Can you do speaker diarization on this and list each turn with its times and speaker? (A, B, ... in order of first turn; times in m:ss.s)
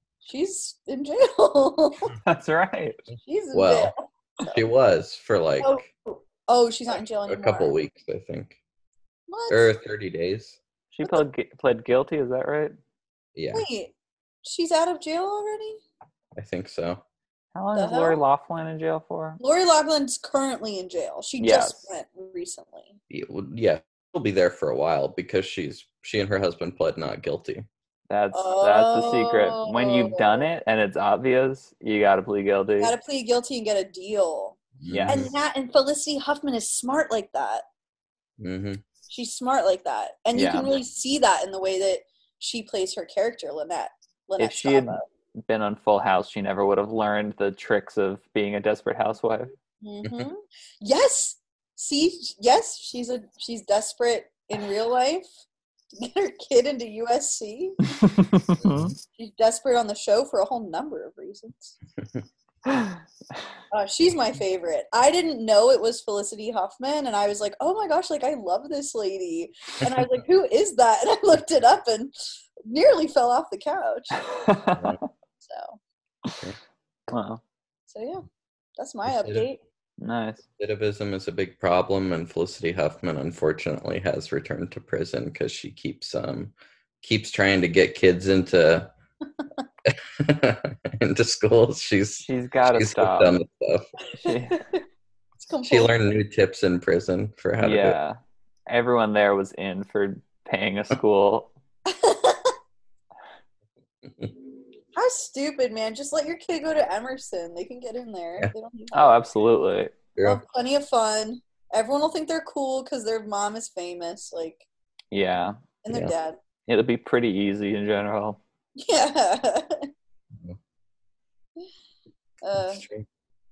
0:00.2-0:02.1 A
0:02.2-0:03.0 B
0:03.2-0:03.9 A
0:03.5-0:03.9 C
0:04.5-0:05.9 C
0:05.6-0:07.7 A
0:07.3-0:08.6 C
0:09.3-0:09.7 A
0:09.5-0:10.6 C
0:10.9-0:12.8 B
0:13.4-0:13.6 C
0:13.5-0:15.8 A
0:16.4-0:17.0 C
0:17.5-0:19.4 B
0:17.8-0:18.2 A
0:19.4-0:23.0 A
0:21.4-0:21.9 B
0:23.1-0:27.6 C
0:28.1-0:32.9 B
0:28.3-0:30.5 A
0:32.8-0:37.6 A
0:34.8-0:35.3 C
0:34.9-0:35.2 B
0:38.4-0:38.8 C
0:39.1-0:45.0 A
0:40.3-0:40.7 B
0:44.4-0:49.5 B
0:49.8-0:55.3 A
0:50.0-0:50.3 C
0:55.9-0:57.9 A
0:57.9-0:58.9 B
0:58.6-0:59.0 C
0:59.2-1:01.8 A
1:02.7-1:03.0 B
1:03.7-1:12.1 A
1:12.6-1:14.2 A
1:14.2-1:15.0 B
1:14.8-1:15.0 C
1:15.4-1:15.8 A
1:17.1-1:17.4 B
1:17.9-1:18.2 A
1:18.8-1:19.6 A
1:19.0-1:19.5 C
1:20.0-1:20.4 B
1:20.6-1:28.9 C
1:29.9-1:33.9 C
1:32.2-1:33.4 B
1:34.2-1:34.6 B
1:34.2-1:34.8 A
1:35.5-1:35.9 A
1:35.6-1:38.0 C
1:37.6-1:38.2 B
1:38.7-1:41.5 B
1:41.9-1:42.5 A
1:44.0-1:44.3 C
1:44.9-1:49.2 A
1:48.9-1:49.9 B
1:50.2-1:50.4 C
1:50.2-1:54.6 A
1:55.1-1:55.6 B
1:55.8-1:56.4 A
1:56.7-1:58.4 B
1:58.8-1:59.9 A
2:02.4-2:02.8 A
2:02.6-2:03.0 C